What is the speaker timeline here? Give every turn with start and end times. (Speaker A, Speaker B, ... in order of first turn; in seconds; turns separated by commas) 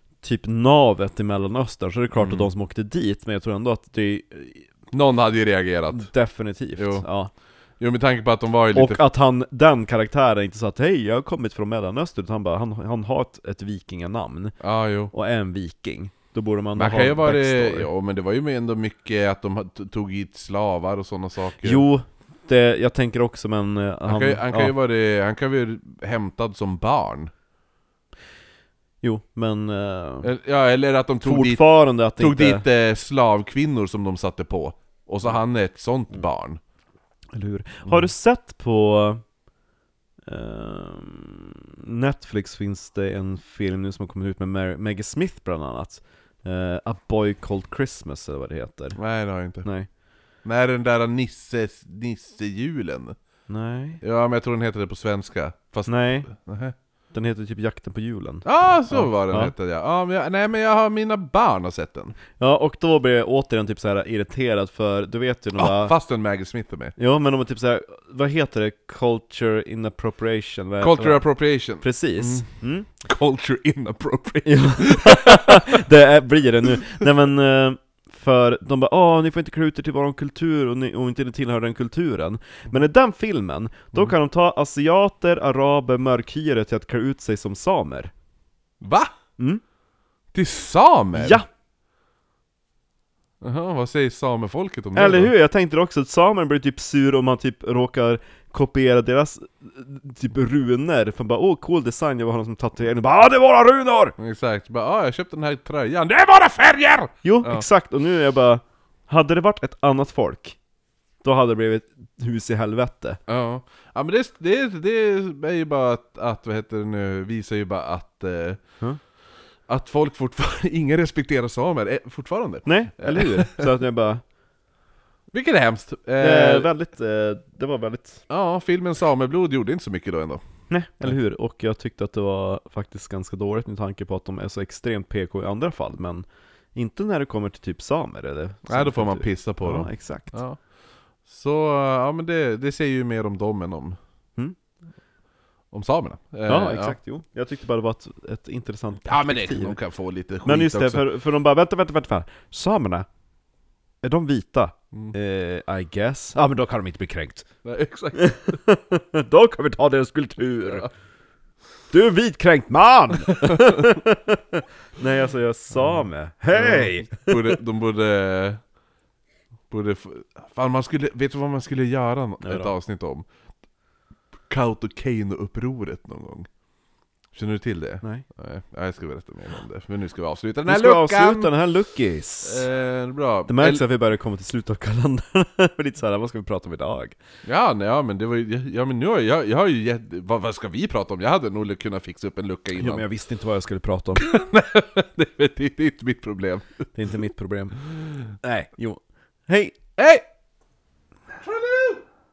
Speaker A: 0.2-4.7, Speaker B: 2.2-2.5, Speaker B: 4.9-6.1, Speaker A: 5.9-7.3, Speaker B: 6.8-7.1, Speaker B: 7.8-9.0, Speaker A: 8.7-14.6, Speaker B: 14.6-15.1, Speaker A: 15.1-17.9, Speaker B: 16.8-21.8, Speaker A: 21.6-24.7, Speaker B: 24.1-27.3, Speaker A: 29.0-30.3, Speaker B: 30.2-31.6, Speaker A: 31.2-32.6, Speaker B: 32.2-36.6, Speaker A: 37.3-39.2, Speaker A: 40.3-49.0, Speaker B: 49.0-49.7, Speaker A: 49.6-49.9, Speaker B: 50.4-53.2, Speaker A: 53.5-54.0, Speaker B: 54.0-56.8, Speaker A: 55.9-56.3, Speaker A: 57.1-59.5, Speaker B: 58.5-62.1, Speaker A: 62.4-66.0, Speaker B: 65.6-66.9, Speaker A: 67.0-71.3, Speaker B: 70.8-72.5, Speaker A: 71.8-72.9, Speaker B: 73.0-75.9, Speaker A: 74.5-88.1, Speaker B: 88.8-89.1, Speaker B: 90.3-91.4, Speaker A: 91.1-91.5, Speaker B: 93.4-95.3, Speaker A: 95.0-104.2, Speaker B: 104.2-107.7, Speaker A: 107.2-110.6, Speaker A: 111.2-113.2, Speaker B: 113.3-118.6, Speaker B: 119.7-123.7, Speaker A: 122.7-124.2, Speaker B: 125.3-126.7, Speaker A: 126.2-128.2, Speaker B: 128.3-130.4, Speaker A: 130.7-140.4, Speaker B: 138.7-140.6, Speaker B: 141.2-144.0, Speaker B: 145.7-147.0, Speaker A: 146.5-149.8, Speaker B: 149.1-151.0, Speaker A: 150.4-153.1, Speaker A: 154.0-157.5, Speaker B: 157.6-158.6, Speaker A: 158.2-160.9, Speaker A: 161.9-167.6, Speaker B: 163.3-163.9, Speaker B: 166.5-168.6, Speaker B: 169.7-173.3, Speaker A: 172.4-172.7, Speaker B: 174.5-176.5, Speaker B: 177.3-181.5, Speaker A: 180.7-182.7, Speaker B: 182.4-183.8, Speaker A: 183.5-187.2, Speaker B: 187.4-193.1, Speaker A: 192.8-194.3, Speaker B: 194.2-196.7, Speaker A: 196.9-197.8, Speaker A: 198.3-199.8, Speaker B: 200.0-200.2, Speaker B: 201.4-202.0